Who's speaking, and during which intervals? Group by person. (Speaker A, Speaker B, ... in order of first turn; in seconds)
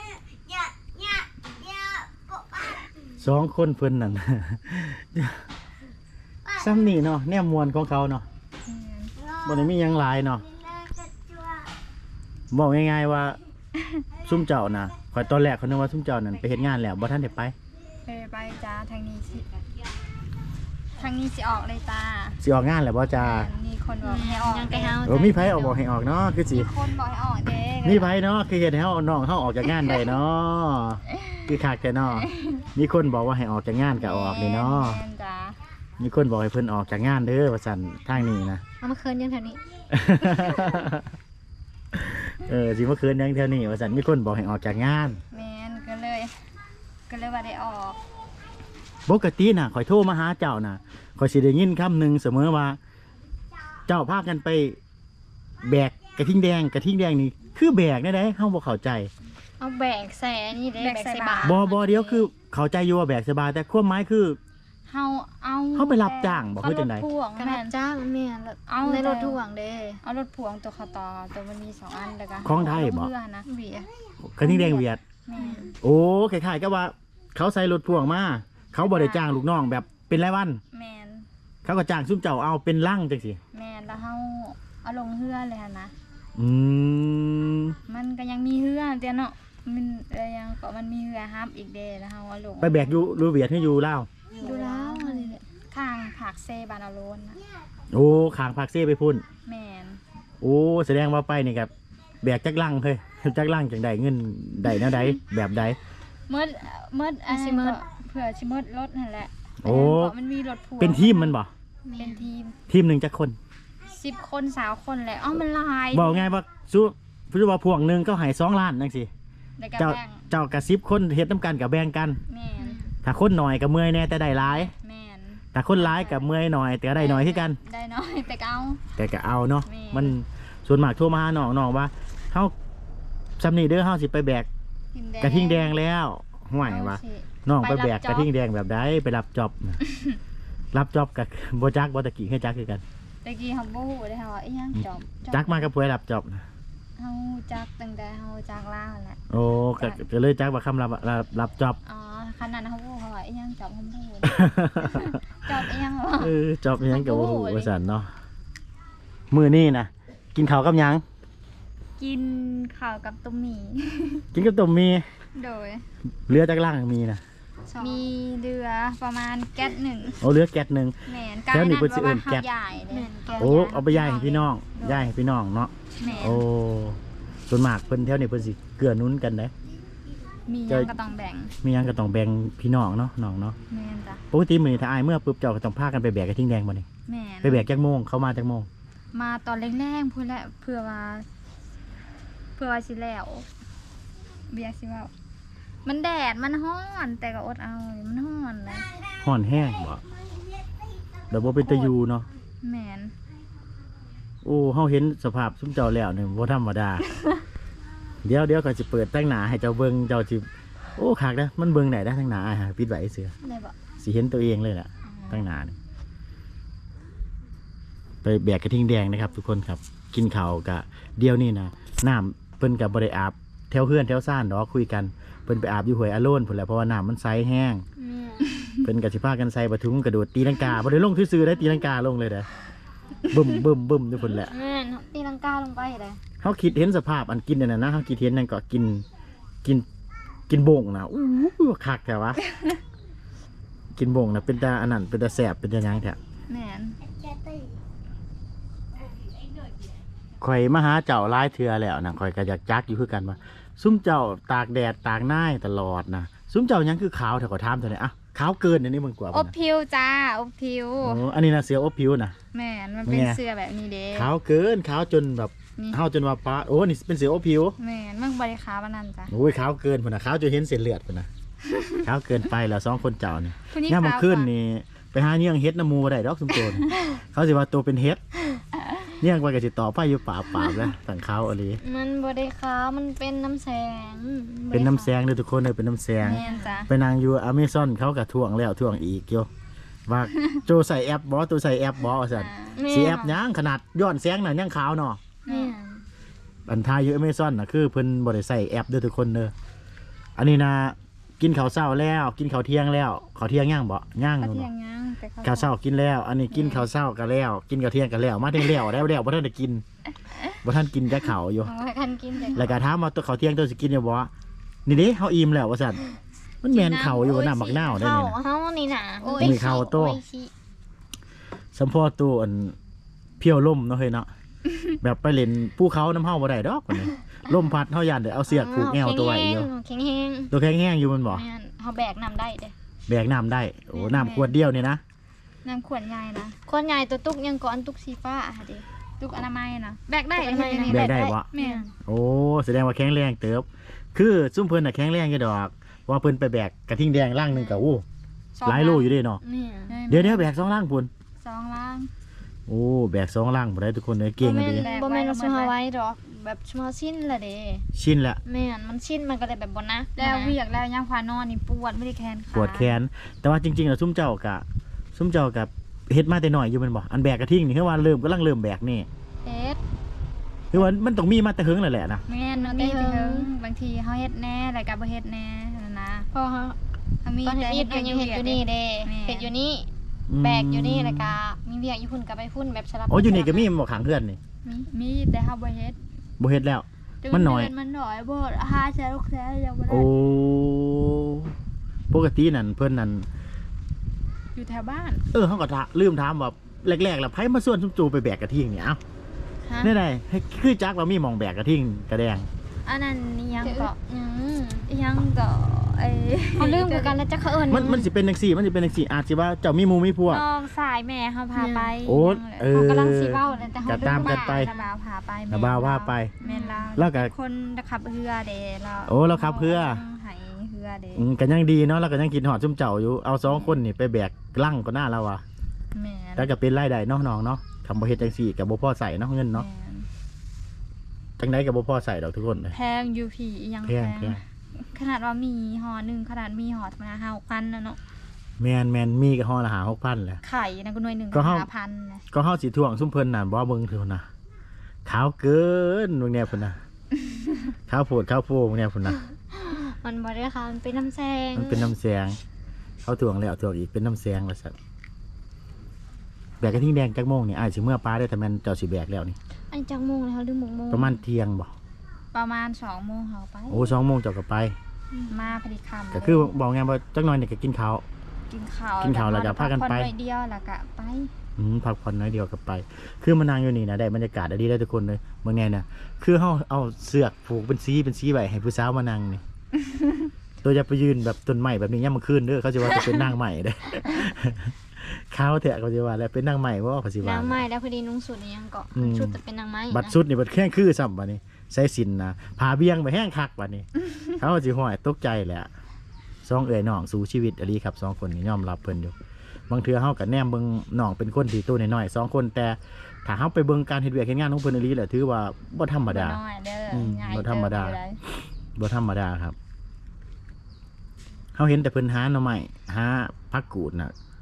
Speaker A: 3.2-5.4, 6.5-8.2, 9.4-10.4, 12.5-13.4, 14.2-17.5, 22.4-23.5, 25.0-26.7, 27.8-35.0, 36.0-38.6, 39.9-41.0, 41.9-45.2, 49.1-52.8, 53.9-54.8, 55.6-59.1, 61.4-64.4, 65.7-67.0, 72.4-73.1, 74.2-75.0, 75.8-80.6, 81.6-83.4, 86.4-87.8, 92.6-94.1, 97.9-99.2, 100.4-101.7, 102.2-105.8, 109.6-110.1, 110.8-111.5, 112.7-113.4, 115.9-119.1, 119.8-122.2, 123.0-124.7, 125.5-127.6, 128.9-132.5, 133.4-134.5, 135.2-139.8, 140.7-142.8, 144.8-146.4, 149.3-151.8, 154.2-155.1, 156.2-158.1, 159.3-161.0, 164.3-165.1, 166.2-167.2, 170.2-171.0, 171.5-172.4, 173.4-179.5, 181.6-183.6, 184.3-186.8, 187.4-188.7, 199.2-200.0, 201.3-202.3, 204.4-207.0, 208.2-213.3, 214.0-215.8, 218.2-227.8, 228.8-232.5, 233.3-234.5, 236.4-239.1, 240.5-242.4, 243.9-246.2, 250.4-259.5, 261.0-262.3, 263.1-263.4, 264.1-267.8, 269.3-271.3, 272.0-278.2, 279.1-281.8, 284.7-289.5, 290.1-295.2, 296.7-299.5, 300.4-304.7, 305.4-309.8, 310.6-311.7, 312.5-314.3, 314.9-316.0, 316.6-318.4, 319.4-320.2, 321.7-322.8, 323.4-324.3, 325.0-329.7, 330.5-331.4, 333.1-335.0, 340.9-341.5, 342.0-348.0, 348.6-349.4, 350.1-351.1, 352.7-354.9, 357.9-358.4, 362.5-369.1, 370.7-372.2, 380.3-381.3, 383.1-384.4, 386.4-387.7, 389.9-391.5, 392.1-393.3, 395.3-399.0, 399.8-402.5, 407.7-410.4, 412.0-414.7, 415.5-416.3, 416.9-417.3, 419.1-420.0, 421.1-425.4, 426.4-429.6, 431.4-432.8, 433.8-434.4, 438.6-440.4, 441.3-441.7, 442.3-444.2, 445.1-446.8, 447.9-449.2, 451.5-452.4, 453.0-454.7, 456.6-459.4, 460.9-461.7, 463.7-464.7, 466.1-468.0, 469.0-470.1, 471.6-479.4, 480.6-487.6, 488.9-489.4, 489.9-495.7, 496.4-499.1, 499.7-506.4, 506.9-508.0, 508.8-509.5, 511.5-514.1
Speaker B: 8.6-9.1, 18.1-19.5, 21.0-22.4, 23.1-25.0, 26.5-28.1, 32.1-32.6, 34.0-35.6, 45.3-46.3, 47.1-48.0, 60.8-62.3, 64.9-67.7, 68.7-69.4, 70.0-73.5, 74.4-75.8, 78.8-79.3, 80.7-81.2, 83.5-85.9, 87.9-93.0, 94.4-97.4, 99.5-100.0, 106.3-111.3, 112.0-112.5, 113.9-116.3, 119.6-120.2, 122.3-122.8, 124.5-126.3, 127.0-128.8, 129.7-130.1, 134.9-135.8, 136.6-138.3, 143.2-145.7, 147.0-149.2, 151.8-156.3, 156.9-157.7, 162.0-164.2, 165.3-165.8, 167.8-170.2, 171.1-175.1, 176.0-176.4, 180.5-181.5, 183.7-184.2, 187.1-187.6, 189.1-191.2, 192.6-193.5, 194.5-195.1, 195.8-198.9, 201.6-201.9, 202.6-203.1, 246.5-247.0, 259.3-261.2, 262.5-264.3, 267.8-269.3, 271.7-272.0, 273.7-274.5, 286.2-286.9, 292.3-292.8, 295.4-295.7, 304.4-305.7, 306.5-306.9, 316.8-317.2, 319.2-319.7, 333.9-334.6, 335.6-336.6, 339.2-341.9, 348.5-349.1, 349.9-350.5, 351.4-352.1, 354.8-355.7, 360.1-362.9, 372.3-376.3, 377.2-379.5, 384.6-386.0, 387.2-390.1, 394.5-395.2, 402.9-403.9, 404.9-407.2, 410.3-412.7, 413.5-421.2, 423.4-423.8, 425.9-426.5, 429.5-430.1, 432.7-438.0, 440.4-442.2, 462.3-463.9, 465.3-466.5, 468.5-471.3, 506.1-508.2
Speaker C: 24.0-25.8, 38.8-39.6, 59.6-61.6, 67.4-70.0, 73.5-73.9, 75.3-75.6, 94.4-95.4, 107.3-107.8, 111.8-112.2, 122.6-122.9, 167.7-168.0, 172.9-173.7, 213.4-213.8, 215.2-215.4, 228.0-228.5, 234.4-236.2, 281.8-285.1, 286.2-286.7, 292.7-293.4, 295.5-296.0, 311.6-312.7, 316.7-320.5, 328.5-330.5, 331.3-332.7, 336.7-338.8, 340.3-341.9, 347.5-347.9, 349.4-349.9, 354.4-357.9, 358.4-360.6, 369.4-369.8, 372.6-373.5, 376.3-376.8, 377.4-383.7, 399.6-399.9, 403.5-404.9, 406.6-408.1, 411.5-411.9, 412.7-414.9, 416.4-416.9, 449.5-451.9, 459.7-461.2, 465.1-465.6, 487.2-490.2